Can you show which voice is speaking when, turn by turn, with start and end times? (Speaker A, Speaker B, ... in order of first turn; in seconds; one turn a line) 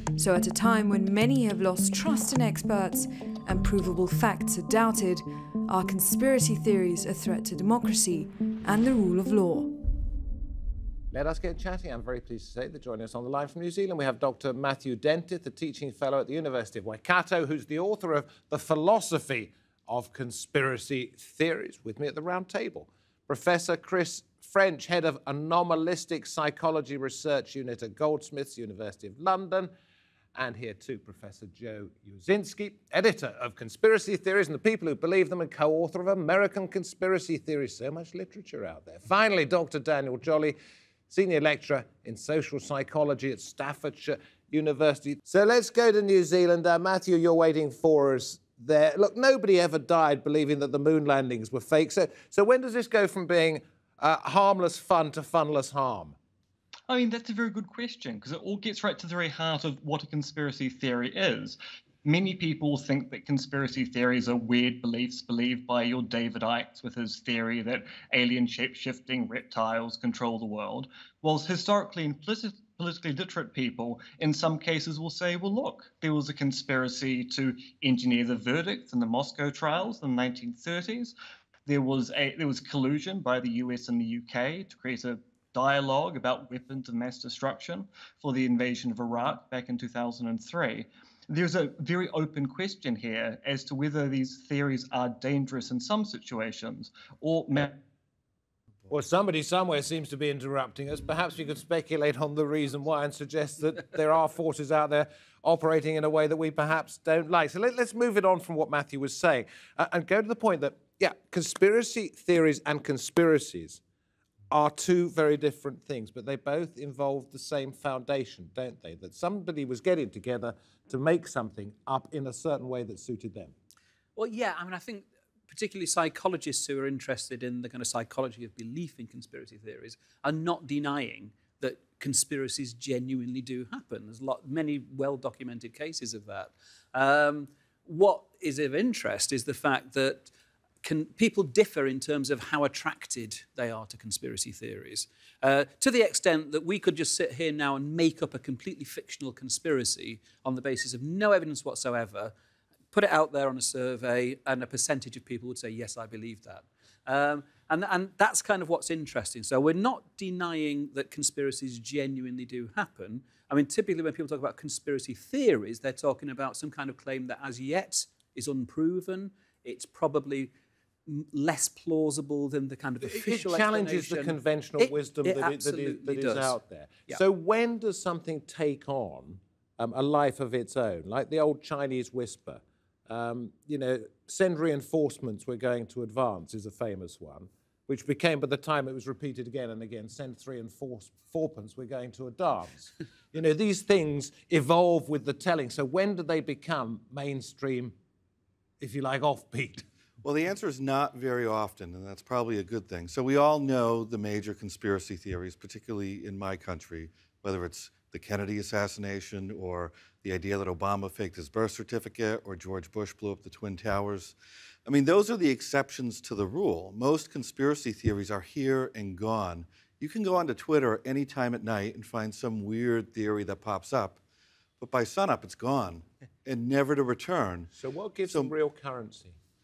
Speaker A: 0.2-9.7
Speaker B: 11.1-29.7
Speaker B: 30.3-40.6
Speaker B: 41.1-56.1
Speaker C: 56.9-81.1
Speaker C: 81.7-97.8
Speaker B: 98.9-113.8
Speaker B: 114.5-123.5
Speaker D: 124.2-140.3
Speaker D: 140.8-152.3
Speaker D: 152.9-170.5
Speaker D: 171.1-177.2
Speaker B: 173.0-197.9
Speaker B: 198.8-199.8
Speaker E: 200.2-214.3
Speaker E: 214.8-224.2
Speaker E: 224.8-227.7
Speaker B: 227.7-229.4
Speaker E: 228.3-228.5